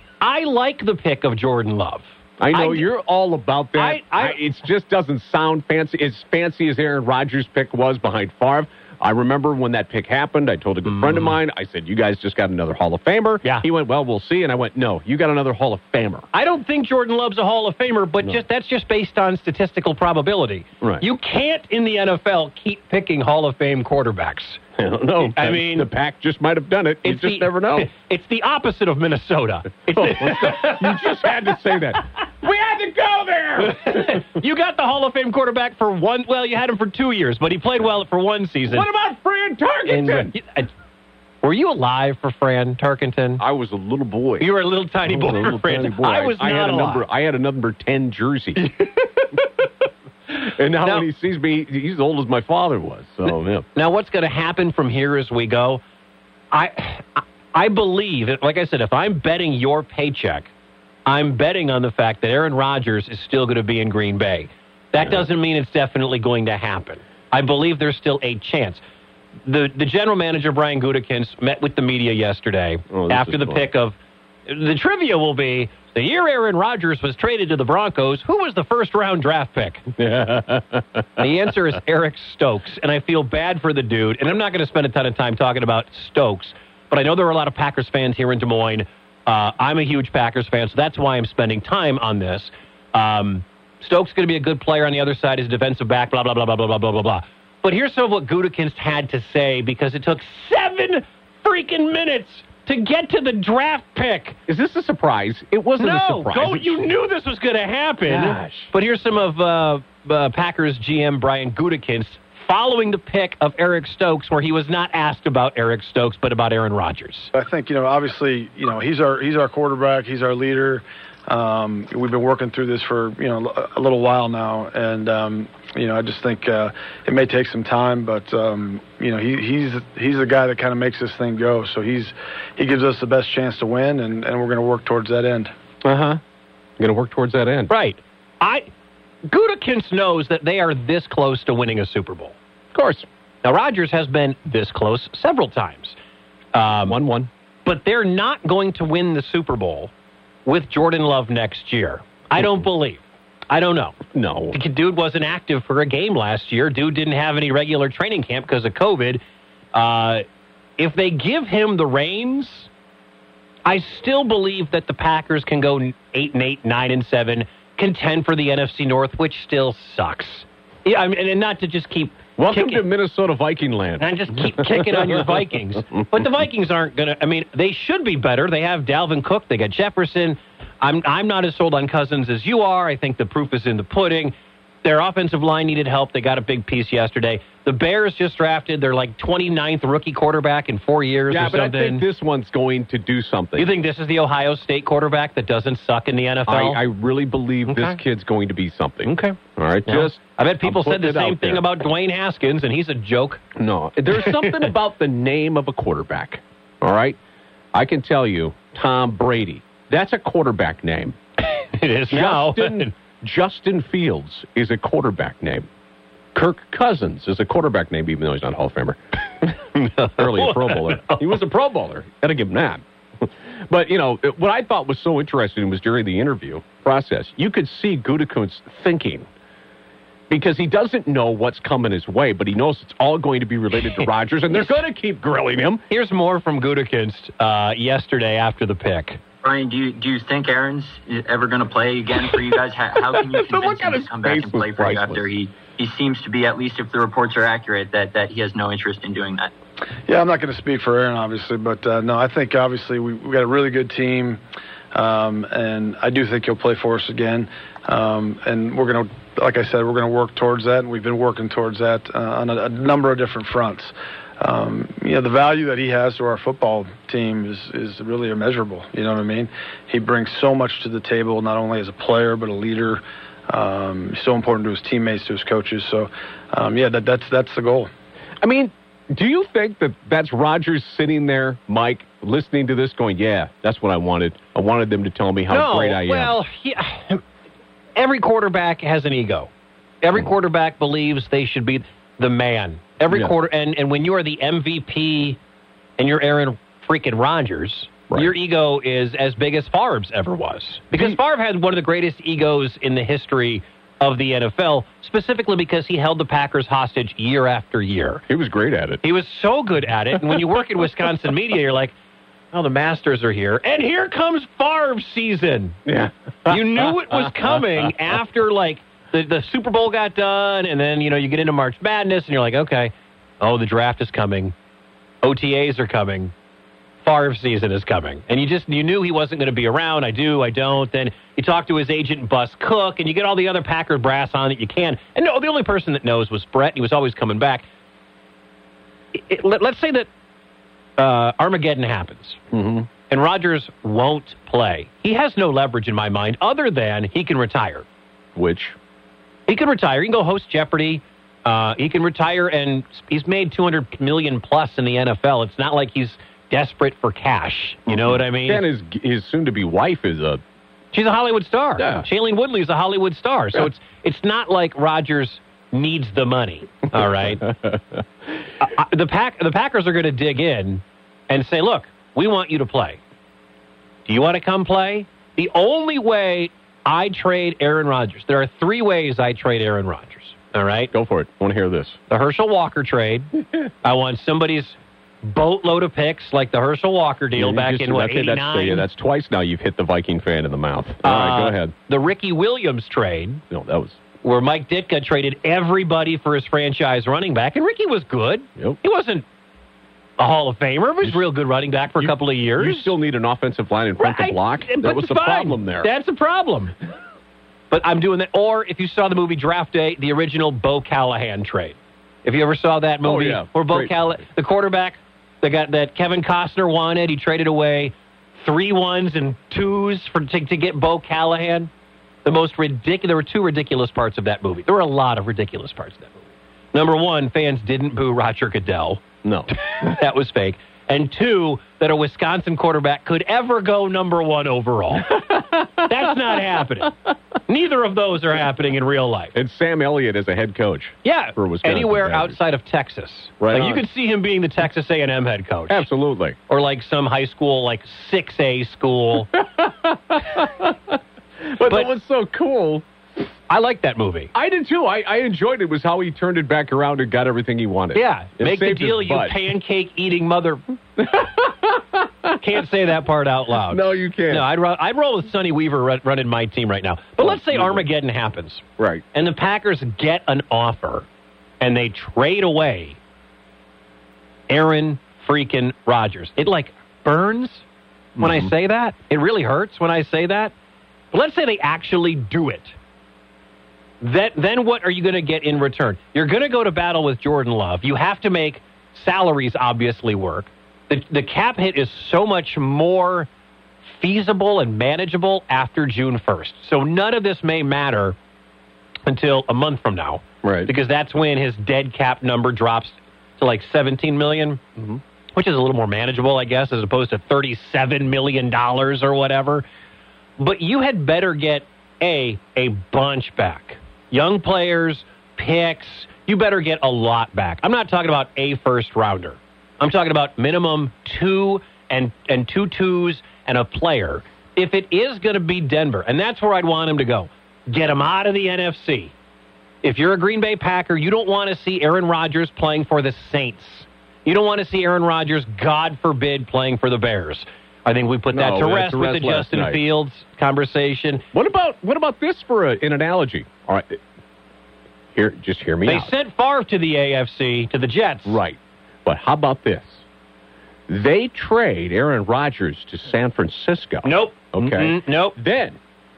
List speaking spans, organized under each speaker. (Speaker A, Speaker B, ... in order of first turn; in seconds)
Speaker A: 0.2-2.9, 3.7-4.4, 10.9-11.3, 16.3-24.6, 25.2-25.9, 27.0-31.1, 33.6-38.9, 39.9-40.7, 41.4-43.4, 44.4-47.0, 53.7-55.8, 56.5-60.5, 61.0-68.8, 69.5-74.0, 74.5-79.8, 81.2-104.4, 105.8-117.3, 137.7-138.7, 139.3-142.3, 143.4-145.9, 146.5-147.0, 147.6-149.9, 150.4-154.0, 154.5-159.2, 159.7-160.2, 160.8-162.7, 163.6-172.8, 174.0-192.0, 193.6-196.8, 197.7-198.0, 199.0-203.4, 204.1-204.7, 211.5-212.9, 219.7-221.3, 233.9-234.7, 235.9-239.2, 285.5-287.2, 288.0-289.5, 290.0-295.4, 296.0-308.2, 309.0-311.9, 312.5-315.8, 316.5-324.5, 325.2-326.3, 327.0-337.6, 339.1-340.1, 341.0-342.4, 343.1-347.8, 349.5-358.6, 360.9-367.5, 368.6-373.0, 374.1-380.9, 382.1-388.9, 391.0-393.4, 394.2-399.2, 400.2-402.9, 404.0-406.7, 407.7-421.7, 422.2-426.2, 426.7-429.0, 429.7-436.9, 437.5-439.3, 441.0-445.9, 446.5-449.3, 451.6-451.9, 453.5-454.3, 457.9-460.6, 462.4-471.1, 471.6-473.0, 474.5-477.6, 478.2-480.5, 481.1-482.7, 484.0-493.3, 494.0-498.2, 499.1-504.6, 505.3-509.6, 510.4-529.1, 529.8-541.2, 545.9-548.4, 554.0-555.4
Speaker B: 2.4-16.3, 24.8-27.9, 29.9-34.2, 38.7-40.3, 43.4-44.5, 45.0-48.6, 50.3-53.7, 72.9-73.7, 80.0-81.3, 104.5-106.8, 108.1-108.7, 135.8-136.2, 136.8-137.7, 142.7-143.1, 146.8-147.3, 154.1-154.6, 172.4-175.8, 191.3-193.7, 196.5-201.7, 203.6-207.2, 207.7-211.2, 212.1-215.7, 216.3-219.0, 220.1-229.3, 230.3-235.8, 243.1-245.2, 278.4-286.4, 300.9-301.2, 308.3-309.0, 315.9-317.6, 342.5-342.9, 348.3-348.8, 357.9-360.4, 361.8-362.1, 367.0-368.0, 380.9-382.0, 387.4-391.7, 393.5-394.0, 402.0-405.9, 413.0-413.9, 429.2-429.5, 435.1-436.1, 439.3-442.4, 443.4-443.8, 445.7-446.4, 449.3-452.8, 454.3-459.4, 461.0-462.4, 463.7-464.4, 467.2-467.8, 468.8-469.0, 478.1-478.5, 500.4-500.7, 538.3-539.8, 541.3-544.0, 545.1-546.1, 548.2-550.0, 550.9-555.8
Speaker C: 117.3-135.5, 250.1-254.4, 254.9-277.9
Speaker D: 239.4-249.5